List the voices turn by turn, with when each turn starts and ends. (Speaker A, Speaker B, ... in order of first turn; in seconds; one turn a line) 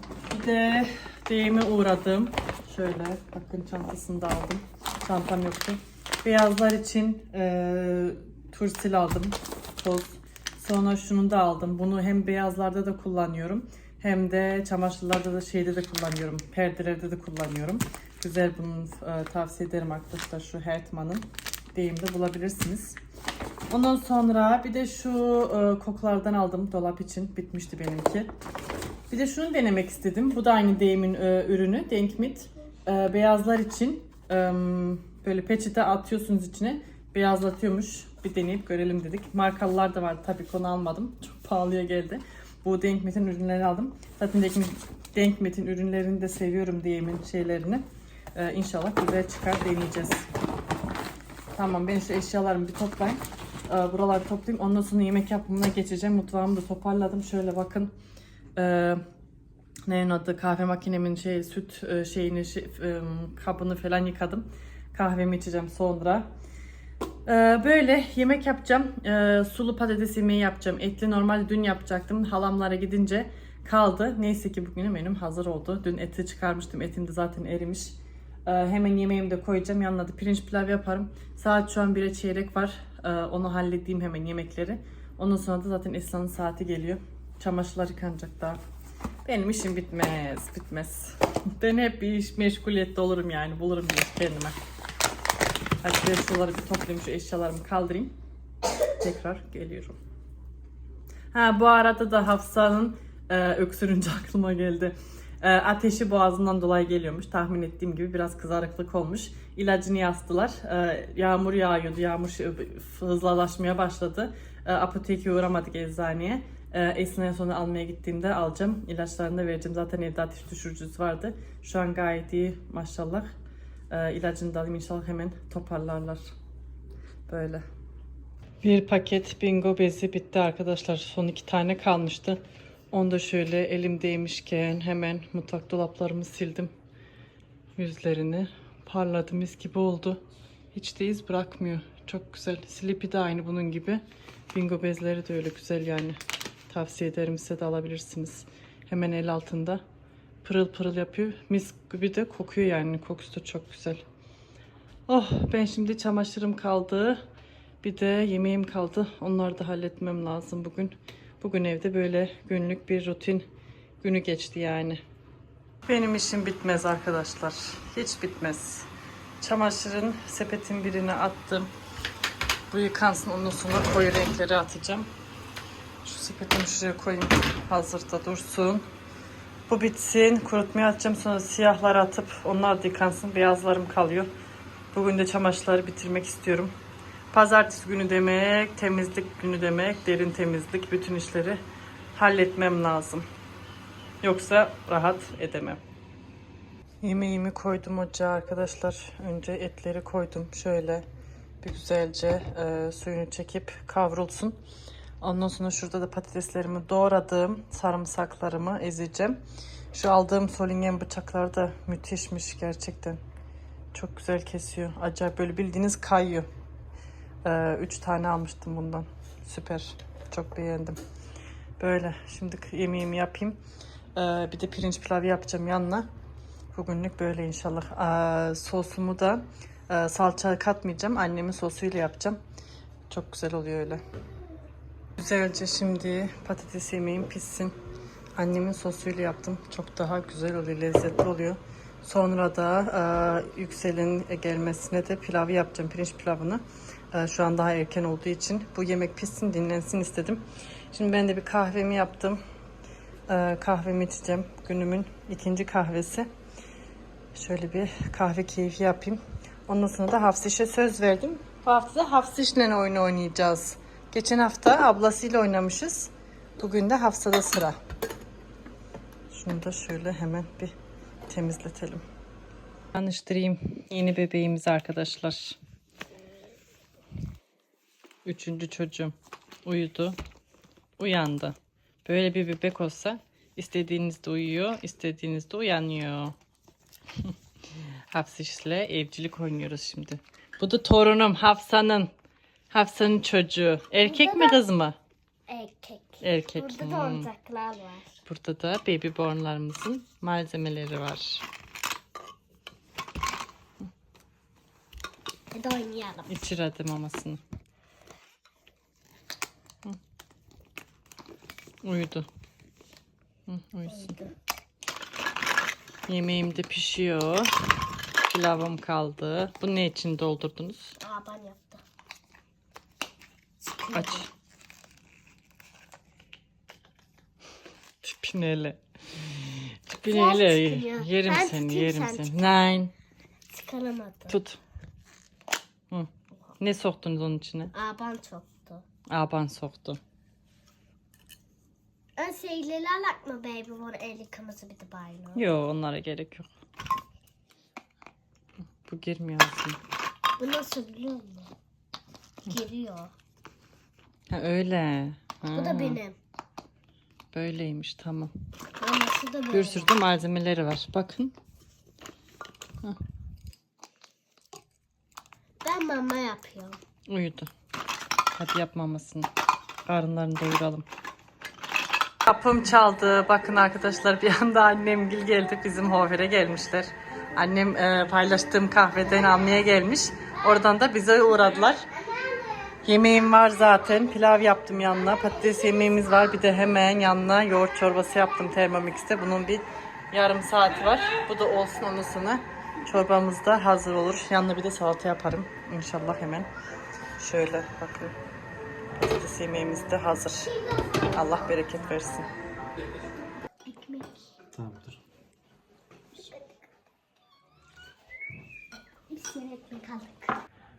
Speaker A: 0.3-23.0
Speaker A: 23.7-28.3
Speaker A: 29.1-47.8
Speaker A: 48.3-50.3
Speaker A: 51.5-57.9
Speaker A: 58.5-59.0
Speaker A: 59.9-66.2
Speaker A: 67.2-88.6
Speaker A: 89.2-94.5
Speaker A: 95.8-98.2
Speaker A: 99.0-100.0
Speaker A: 101.3-123.3
Speaker A: 123.9-126.3
Speaker A: 127.3-127.6
Speaker A: 128.6-136.7
Speaker A: 137.8-140.2
Speaker A: 140.7-149.8
Speaker A: 150.4-154.0
Speaker A: 155.1-157.2
Speaker A: 157.8-163.4
Speaker A: 164.0-165.0
Speaker A: 165.9-168.9
Speaker A: 169.4-171.7
Speaker A: 172.7-175.1
Speaker A: 176.0-178.8
Speaker A: 179.7-184.3
Speaker A: 184.9-186.7
Speaker A: 187.3-191.6
Speaker A: 192.1-193.2
Speaker A: 194.2-195.8
Speaker A: 197.0-201.0
Speaker A: 201.6-204.6
Speaker A: 205.2-209.4
Speaker A: 209.9-213.2
Speaker A: 213.9-216.5
Speaker A: 217.4-221.0
Speaker A: 221.8-223.6
Speaker A: 224.1-226.1
Speaker A: 226.7-232.4
Speaker A: 233.1-234.0
Speaker A: 235.2-237.7
Speaker A: 238.3-252.4
Speaker A: 253.3-256.3
Speaker A: 257.3-267.8
Speaker A: 269.3-270.7
Speaker A: 271.3-272.0
Speaker A: 272.9-275.6
Speaker A: 278.2-280.2
Speaker A: 281.0-286.4
Speaker A: 288.1-292.1
Speaker A: 292.7-295.0
Speaker B: 294.0-294.6
Speaker B: 295.5-298.2
Speaker A: 296.2-297.3
Speaker A: 298.2-301.4
Speaker B: 305.5-306.3
Speaker A: 306.3-307.4
Speaker A: 311.8-312.3
Speaker A: 313.5-314.1
Speaker B: 313.9-314.3
Speaker A: 316.1-317.7
Speaker A: 318.2-321.0
Speaker B: 321.0-321.8
Speaker B: 323.6-324.3
Speaker A: 323.9-324.3
Speaker A: 328.0-332.9
Speaker B: 330.1-332.6
Speaker B: 333.5-334.4
Speaker A: 334.3-334.6
Speaker A: 335.9-337.7
Speaker B: 337.7-338.8
Speaker A: 339.1-340.0
Speaker B: 342.2-345.5
Speaker A: 345.3-346.5
Speaker A: 348.8-349.8
Speaker B: 350.4-351.5
Speaker B: 352.5-353.1
Speaker A: 354.3-356.0
Speaker B: 355.5-356.2
Speaker A: 357.3-358.3
Speaker B: 358.8-359.9
Speaker A: 359.5-361.3
Speaker B: 365.6-366.8
Speaker A: 367.1-367.5
Speaker A: 368.3-369.3
Speaker A: 369.9-370.9
Speaker A: 372.2-381.9
Speaker B: 381.9-382.8
Speaker A: 382.8-396.5
Speaker A: 397.2-398.1
Speaker A: 398.9-402.3
Speaker B: 403.6-404.3
Speaker B: 409.1-410.4